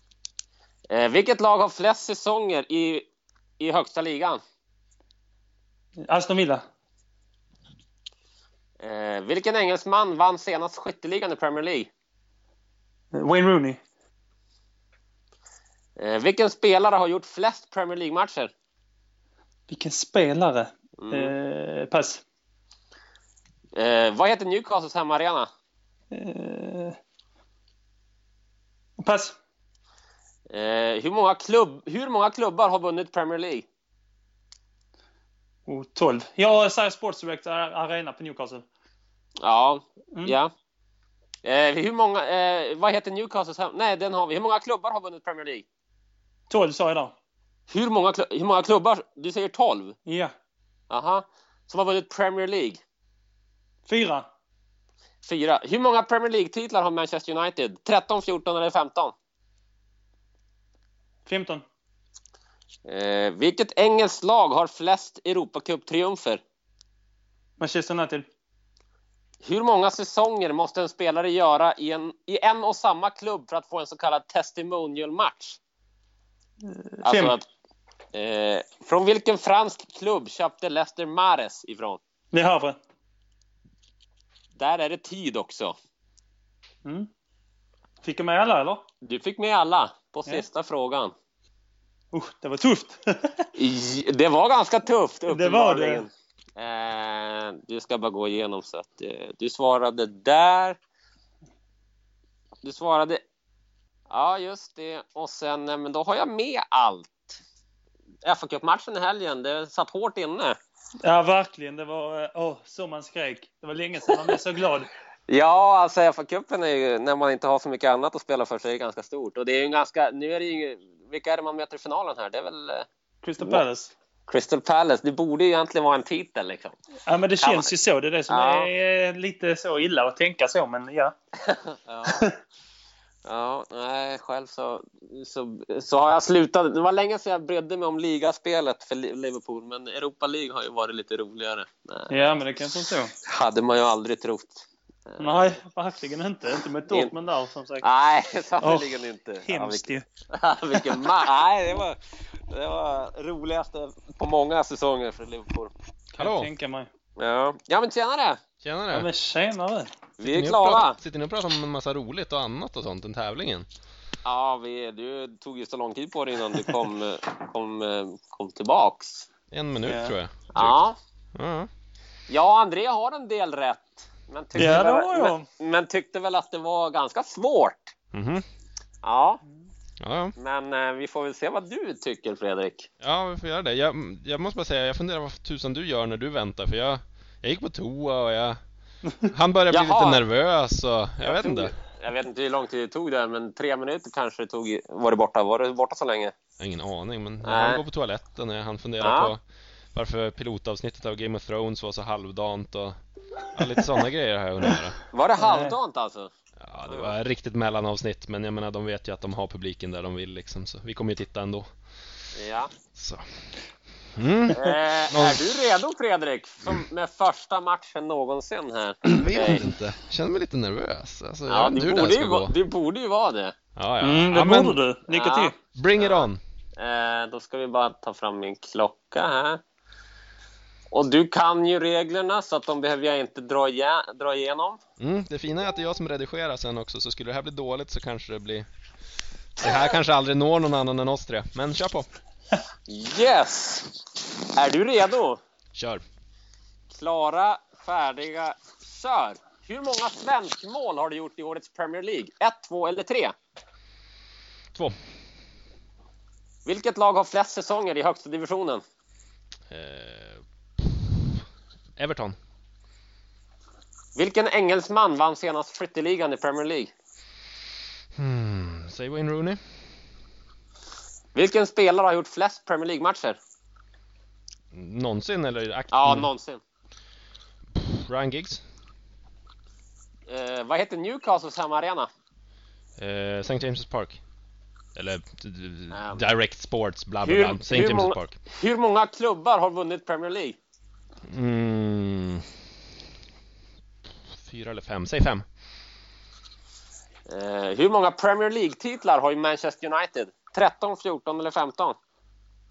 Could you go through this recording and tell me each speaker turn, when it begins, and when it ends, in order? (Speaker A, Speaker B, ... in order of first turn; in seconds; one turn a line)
Speaker A: 0.9-3.0
Speaker A: 3.6-4.4
Speaker B: 6.0-6.6
Speaker A: 8.8-11.9
Speaker B: 13.1-13.8
Speaker A: 16.0-18.5
Speaker B: 19.7-22.2
Speaker A: 21.0-21.3
Speaker A: 23.8-25.5
Speaker B: 26.1-27.0
Speaker B: 29.0-29.4
Speaker A: 30.5-33.7
Speaker B: 35.7-38.7
Speaker A: 39.4-40.5
Speaker A: 41.4-45.7
Speaker B: 46.5-47.1
Speaker A: 47.7-50.0
Speaker B: 50.1-50.3
Speaker A: 50.9-52.8
Speaker B: 53.9-54.3
Speaker A: 55.2-59.1
Speaker B: 61.3-61.6
Speaker A: 62.9-66.4
Speaker B: 67.6-68.3
Speaker A: 69.4-75.6
Speaker B: 76.6-77.4
Speaker A: 77.0-77.4
Speaker A: 78.1-82.0
Speaker B: 82.3-82.8
Speaker A: 84.6-85.8
Speaker B: 88.0-88.8
Speaker A: 89.0-91.1
Speaker B: 92.1-93.3
Speaker A: 93.6-100.8
Speaker B: 95.3-96.1
Speaker A: 102.6-103.2
Speaker A: 104.1-107.4
Speaker A: 108.2-110.6
Speaker B: 111.0-114.9
Speaker A: 115.3-122.9
Speaker B: 123.2-123.9
Speaker A: 124.3-126.8
Speaker B: 127.1-131.1
Speaker A: 127.4-127.7
Speaker A: 128.3-128.7
Speaker A: 131.4-132.2
Speaker B: 132.1-132.3
Speaker A: 133.2-142.3
Speaker B: 142.1-143.1
Speaker A: 143.2-145.6
Speaker B: 145.2-147.8
Speaker A: 147.8-155.7
Speaker B: 148.6-150.1
Speaker B: 156.1-156.9
Speaker C: 156.2-156.5
Speaker A: 157.2-158.4
Speaker C: 158.6-159.1
Speaker B: 158.9-159.9
Speaker A: 160.2-161.0
Speaker C: 160.2-163.7
Speaker A: 164.2-169.3
Speaker C: 169.5-171.7
Speaker B: 169.8-170.2
Speaker A: 170.5-171.0
Speaker A: 172.3-177.9
Speaker B: 174.6-175.5
Speaker C: 178.1-178.4
Speaker A: 179.0-179.4
Speaker C: 180.0-180.3
Speaker A: 180.4-182.9
Speaker C: 183.0-188.6
Speaker C: 189.2-191.7
Speaker A: 189.7-190.2
Speaker A: 191.2-196.3
Speaker C: 196.6-199.4
Speaker A: 197.4-197.8
Speaker A: 199.0-199.3
Speaker C: 199.9-203.0
Speaker C: 203.5-205.0
Speaker A: 205.1-206.3
Speaker B: 205.4-205.8
Speaker C: 206.6-211.7
Speaker A: 206.9-207.1
Speaker A: 212.3-212.7
Speaker C: 212.9-213.2
Speaker C: 214.2-215.5
Speaker A: 214.5-219.6
Speaker C: 219.1-222.5
Speaker A: 221.5-223.6
Speaker C: 223.8-224.8
Speaker B: 224.0-225.6
Speaker A: 225.1-229.6
Speaker C: 225.8-226.4
Speaker A: 230.9-234.8
Speaker C: 235.0-238.7
Speaker C: 239.6-242.1
Speaker A: 242.9-244.0
Speaker A: 244.6-245.4
Speaker C: 245.7-246.0
Speaker A: 246.9-253.3
Speaker A: 256.6-258.8
Speaker C: 259.7-261.4
Speaker C: 262.0-262.4
Speaker A: 264.2-266.9
Speaker C: 268.2-269.6
Speaker A: 271.4-273.4
Speaker C: 274.7-276.3
Speaker A: 275.9-276.6
Speaker C: 277.8-278.6
Speaker A: 280.3-282.1
Speaker C: 283.0-284.2
Speaker C: 284.9-288.4
Speaker A: 285.9-286.2
Speaker A: 287.2-290.6
Speaker C: 291.3-292.5
Speaker C: 294.3-295.4
Speaker A: 297.3-302.0